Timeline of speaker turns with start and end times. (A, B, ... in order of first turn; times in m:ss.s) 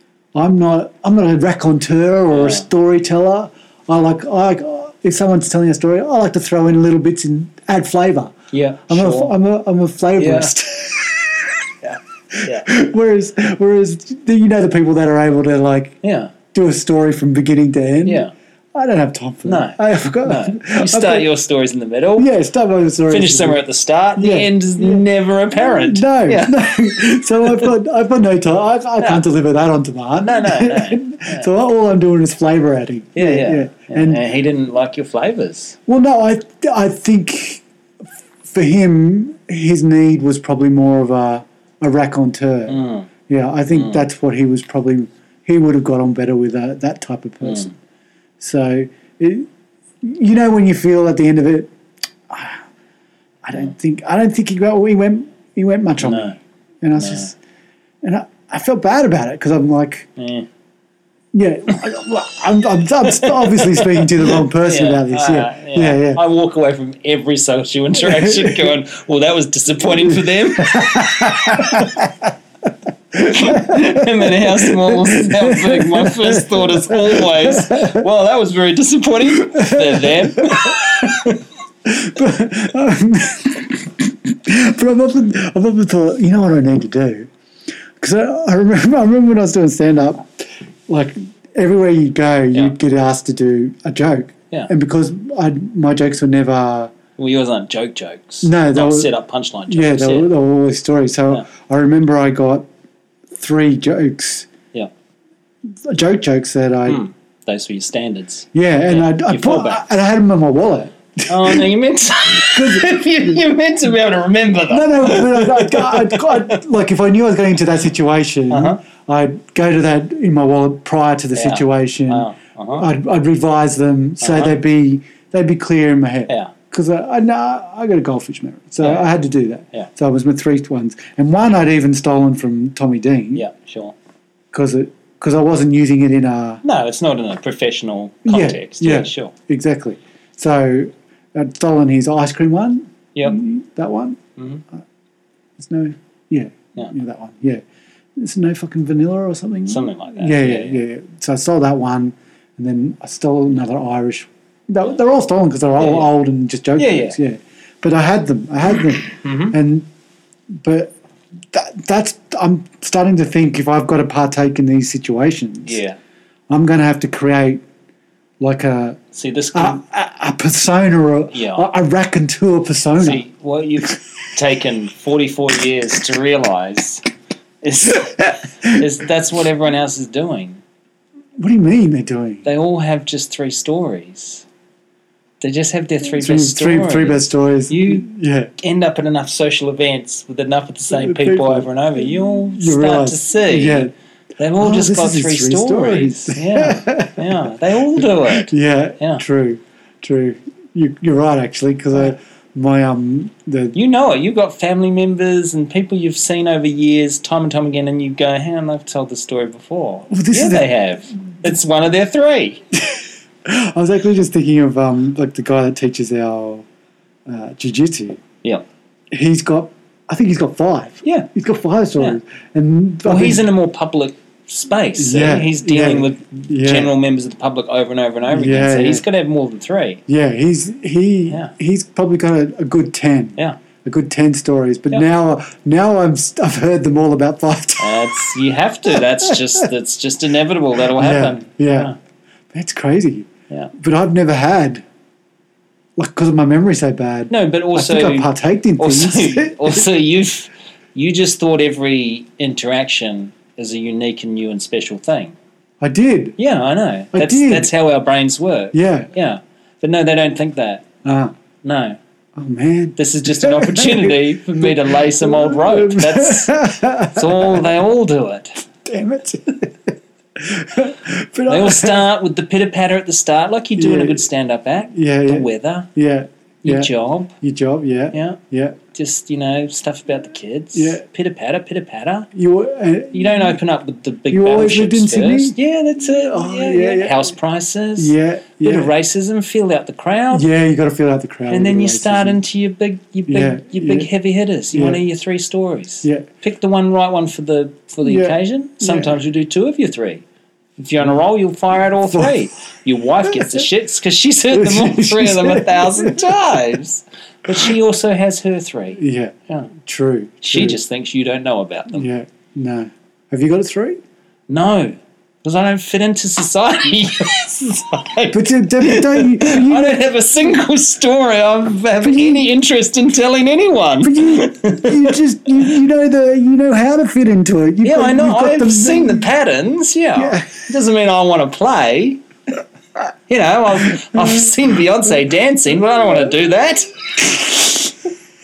0:00.3-0:08.3 A
0:02.3-0:02.7 B
0:08.5-0:09.3 B
0:08.9-0:11.6 A
0:10.2-0:10.5 B
0:11.8-0:12.7 B
0:12.3-0:16.0 A
0:16.0-0:16.3 B
0:16.5-0:21.3 A
0:18.0-0:18.3 B
0:19.4-0:22.3 B
0:22.2-0:23.6 A
0:23.1-0:26.6 B
0:24.2-0:34.2 A
0:30.2-0:31.5 B
0:33.2-0:35.8 B
0:35.9-0:37.6 A
0:38.4-0:47.7 A
0:42.7-0:43.1 B
0:43.7-0:44.1 B
0:47.4-0:47.7 B
0:48.4-0:49.5 A
0:50.0-0:51.7 A
0:52.3-0:52.6 A
0:53.4-0:57.4 A
0:56.0-0:56.4 B
0:57.0-0:57.3 B
0:58.0-1:00.1 A
1:00.2-1:00.5 B
1:01.3-1:06.2 A
1:03.0-1:12.0 B
1:08.0-1:08.8 A
1:10.0-1:12.3 A
1:13.1-1:18.1 A
1:13.2-1:21.4 B
1:19.3-1:27.3 A
1:28.0-1:30.3 A
1:30.9-1:36.9 A
1:37.2-1:40.3 B
1:38.4-1:39.1 A
1:39.7-1:42.7 A
1:43.3-1:44.5 A
1:45.8-1:47.0 A
1:46.9-1:49.9 B
1:48.5-1:51.7 A
1:51.3-1:56.6 B
1:52.4-1:53.0 A
1:54.7-2:13.4 A
1:58.5-1:58.8 B
2:01.4-2:02.9 B
2:04.2-2:04.6 B
2:06.3-2:06.5 B
2:08.8-2:09.1 B
2:13.3-2:14.0 B
2:14.5-2:16.6 A
2:16.6-2:19.3 B
2:18.2-2:24.2 A
2:25.6-2:27.6 A
2:28.2-2:39.9 A
2:29.7-2:30.8 B
2:35.8-2:36.1 B
2:36.8-2:37.2 B
2:39.2-2:39.6 B
2:40.5-2:41.0 A
2:41.5-2:45.8 A
2:45.6-2:46.0 B
2:46.5-2:47.6 A
2:48.4-2:49.0 A
2:49.1-2:49.8 B
2:49.5-2:53.2 A
2:51.3-2:51.7 B
2:53.0-2:57.0 B
2:57.6-3:00.6 B
3:01.4-3:02.5 A
3:02.4-3:04.5 B
3:05.4-3:08.1 B
3:06.2-3:08.5 A
3:08.6-3:19.2 B
3:10.9-3:13.9 A
3:14.6-3:23.8 A
3:23.7-3:32.6 B
3:30.1-3:30.7 A
3:32.8-3:36.7 A
3:37.3-3:38.2 A
3:39.1-3:43.5 A
3:41.0-3:41.3 B
3:43.0-3:50.0 B
3:45.0-3:47.0 A
3:48.3-3:49.0 A
3:50.1-3:58.0 A
3:57.8-4:02.0 B
3:58.9-3:59.6 A
4:00.9-4:01.9 A
4:02.5-4:04.8 A
4:06.0-4:09.9 A
4:07.3-4:15.4 B
4:15.8-4:16.4 A
4:16.4-4:20.9 B
4:17.1-4:17.7 A
4:18.7-4:19.1 A
4:21.0-4:21.3 A
4:21.6-4:22.0 B
4:22.4-4:27.7 A
4:23.0-4:28.6 B
4:28.8-4:32.1 A
4:31.5-4:35.9 B
4:33.8-4:34.2 A
4:34.9-4:36.9 A
4:36.6-4:37.3 B
4:37.4-4:38.8 A
4:38.1-4:38.4 B
4:38.9-4:42.3 B
4:40.7-4:41.0 A
4:42.3-4:43.6 A
4:43.1-4:50.4 B
4:44.3-4:47.4 A
4:48.0-4:48.9 A
4:50.3-4:52.4 A
4:51.5-5:00.2 B
4:53.3-4:54.1 A
4:54.7-4:55.0 A
4:58.0-4:59.2 A
5:00.8-5:09.7 B
5:02.1-5:02.4 A
5:03.3-5:03.6 A
5:04.5-5:06.3 A
5:07.5-5:07.8 A
5:09.0-5:10.8 A
5:10.4-5:12.1 B
5:11.9-5:14.0 A
5:14.5-5:25.2 B
5:18.3-5:20.0 A
5:22.0-5:22.5 A
5:24.0-5:29.3 A
5:27.8-5:32.2 B
5:30.2-5:30.6 A
5:33.3-5:37.8 B
5:34.0-5:34.5 A